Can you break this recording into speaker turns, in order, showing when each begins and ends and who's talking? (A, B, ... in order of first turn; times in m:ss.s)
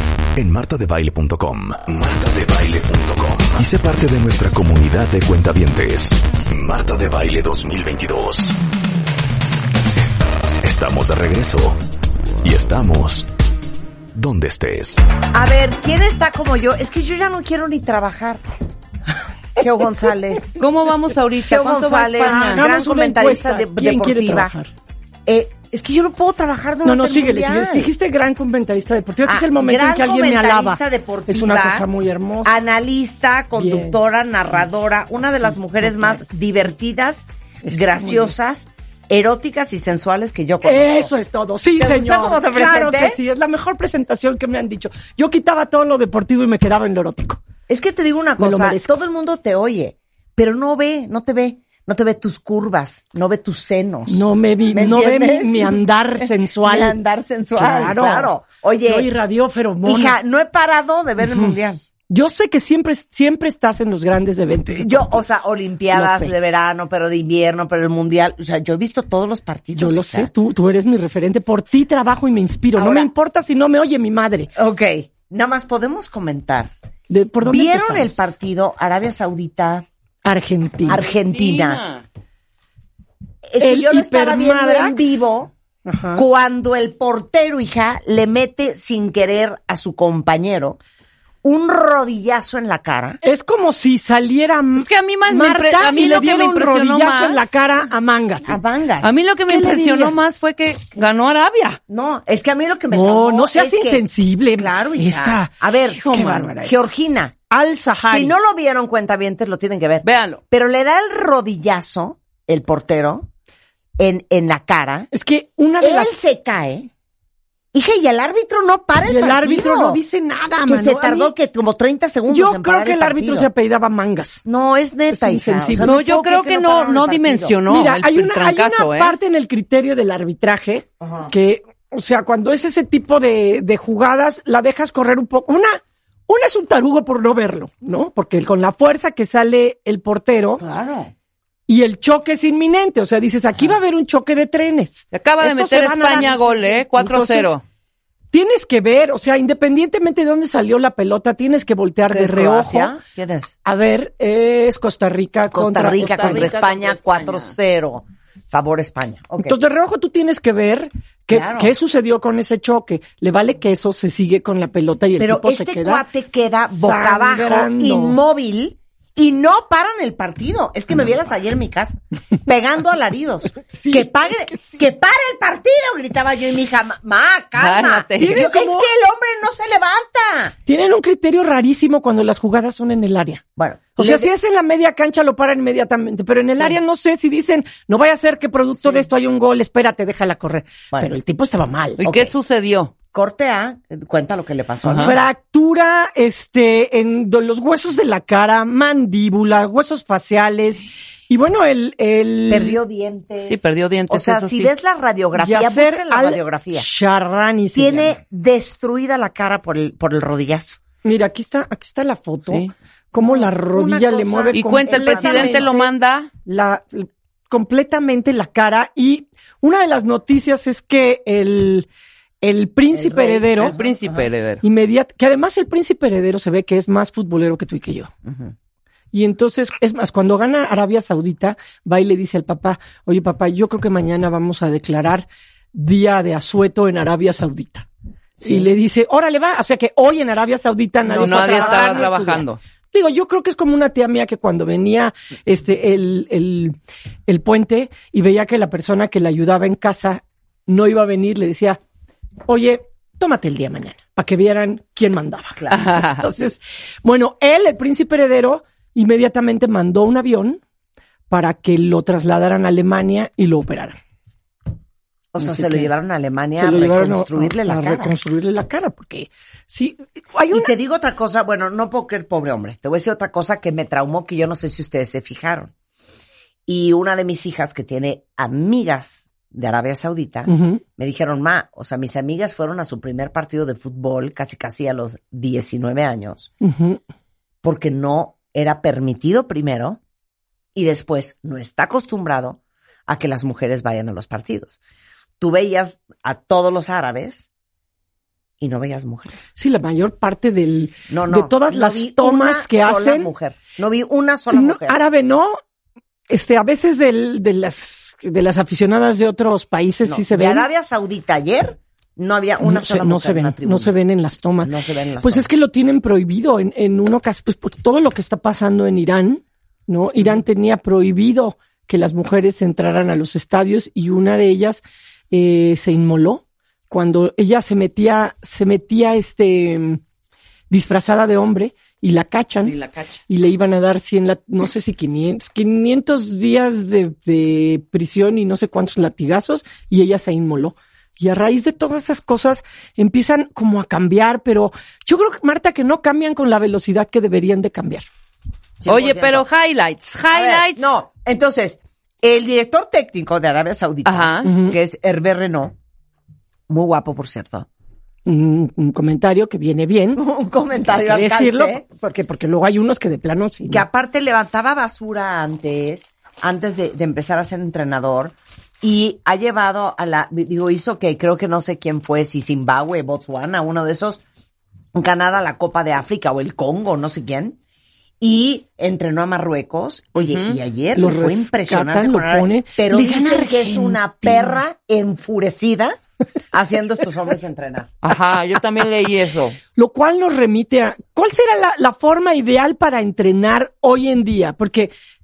0:00.4-0:08.6 A
0:10.0-0:11.8 A
0:12.4-0:13.3 A
0:14.2-0:15.1 A
0:15.3-0:18.4 B
0:19.6-0:20.6 B
0:20.6-0:22.6 C
0:21.4-0:24.5 B
0:22.2-0:24.7 D
0:25.3-0:27.9 B
0:26.8-0:32.5 D
0:29.2-0:31.9 B
0:32.4-0:41.1 B
0:33.6-0:34.0 D
0:35.4-0:36.4 D
0:37.6-0:38.3 D
0:40.6-0:47.4 D
0:41.8-0:43.2 B
0:47.7-0:59.1 B
0:48.4-0:49.0 D
0:54.1-0:57.0 D
0:57.6-0:58.3 D
0:58.9-1:00.2 D
0:59.8-1:01.8 B
1:01.2-1:01.6 D
1:02.1-1:05.2 D
1:04.7-1:10.3 B
1:05.9-1:06.4 D
1:09.8-1:14.5 D
1:12.8-1:13.1 B
1:14.6-1:16.7 B
1:17.1-1:18.3 D
1:17.4-1:19.9 B
1:20.2-1:21.0 D
1:20.9-1:21.8 B
1:21.3-1:22.0 C
1:23.5-1:25.5 B
1:23.6-1:25.1 D
1:25.9-1:26.2 D
1:26.2-1:30.8 B
1:31.4-1:33.2 B
1:33.2-1:38.6 D
1:34.8-1:37.5 C
1:38.4-1:40.2 B
1:39.0-1:41.8 C
1:39.7-1:40.2 D
1:41.9-1:44.0 B
1:42.9-1:46.8 D
1:44.6-1:47.4 B
1:47.5-1:48.4 D
1:48.1-1:53.3 B
1:50.0-1:50.4 C
1:54.0-1:55.1 B
1:55.1-1:56.2 D
1:55.8-1:56.9 B
1:57.7-2:00.0 B
1:59.1-2:01.3 D
2:00.6-2:03.5 B
2:02.3-2:04.4 D
2:04.4-2:07.6 B
2:05.1-2:05.9 D
2:05.8-2:09.2 C
2:07.7-2:20.6 D
2:11.0-2:11.3 B
2:20.6-2:21.1 B
2:21.7-2:27.6 D
2:25.1-2:27.6 C
2:28.3-2:33.0 D
2:32.1-2:33.6 B
2:33.6-2:36.5 D
2:35.5-2:39.6 B
2:36.0-2:37.5 C
2:39.4-2:46.0 D
2:41.3-2:41.8 B
2:45.2-3:00.6 B
2:46.7-2:48.2 D
2:53.7-2:54.8 D
2:57.6-2:58.4 C
2:58.2-2:58.9 D
3:00.7-3:03.4 D
3:03.6-3:04.3 B
3:04.0-3:12.0 D
3:08.8-3:09.1 B
3:12.0-3:12.9 C
3:12.0-3:12.3 B
3:13.1-3:15.2 B
3:14.9-3:15.2 C
3:14.9-3:22.8 D
3:22.5-3:26.9 B
3:23.4-3:24.7 C
3:25.4-3:28.1 D
3:27.8-3:30.8 B
3:31.0-3:35.9 D
3:33.2-3:35.8 B
3:34.5-3:36.3 C
3:36.4-3:41.9 D
3:42.4-3:43.8 D
3:42.9-3:44.3 B
3:43.6-3:44.6 C
3:44.6-3:48.1 D
3:48.3-3:48.5 B
3:49.1-3:57.9 D
3:58.4-3:58.7 B
3:58.4-4:06.8 D
4:01.1-4:02.6 C
4:01.1-4:02.2 B
4:07.3-4:11.8 D
4:12.5-4:20.6 D
4:15.6-4:15.8 B
4:15.7-4:16.2 C
4:21.3-4:24.0 D
4:25.3-4:28.1 B
4:25.4-4:25.9 D
4:26.6-4:30.7 D
4:30.5-4:35.7 B
4:36.7-4:46.5 B
4:40.5-4:40.8 D
4:46.6-4:47.0 D
4:47.6-4:50.0 B
4:50.8-4:54.8 B
4:55.4-4:57.5 B
4:58.6-4:59.5 B
4:59.6-5:03.3 D
5:01.1-5:05.0 B
5:04.5-5:05.6 D
5:06.3-5:10.7 D
5:10.0-5:13.9 B
5:12.6-5:30.0 D
5:14.6-5:15.5 B
5:30.7-5:32.8 D
5:32.6-5:33.2 C
5:33.3-5:48.1 D
5:48.8-5:49.5 B
5:48.9-5:50.9 C
5:50.3-5:55.8 B
5:54.0-5:54.5 C
5:54.4-5:54.8 D
5:56.7-5:57.7 B
5:58.3-6:00.2 D
6:00.2-6:01.8 B
6:00.9-6:03.9 D
6:03.7-6:14.2 B
6:15.0-6:17.6 B
6:18.2-6:26.0 B
6:20.2-6:20.6 C
6:21.0-6:24.6 D
6:26.5-6:28.0 B
6:28.0-6:29.6 C
6:29.8-6:34.9 D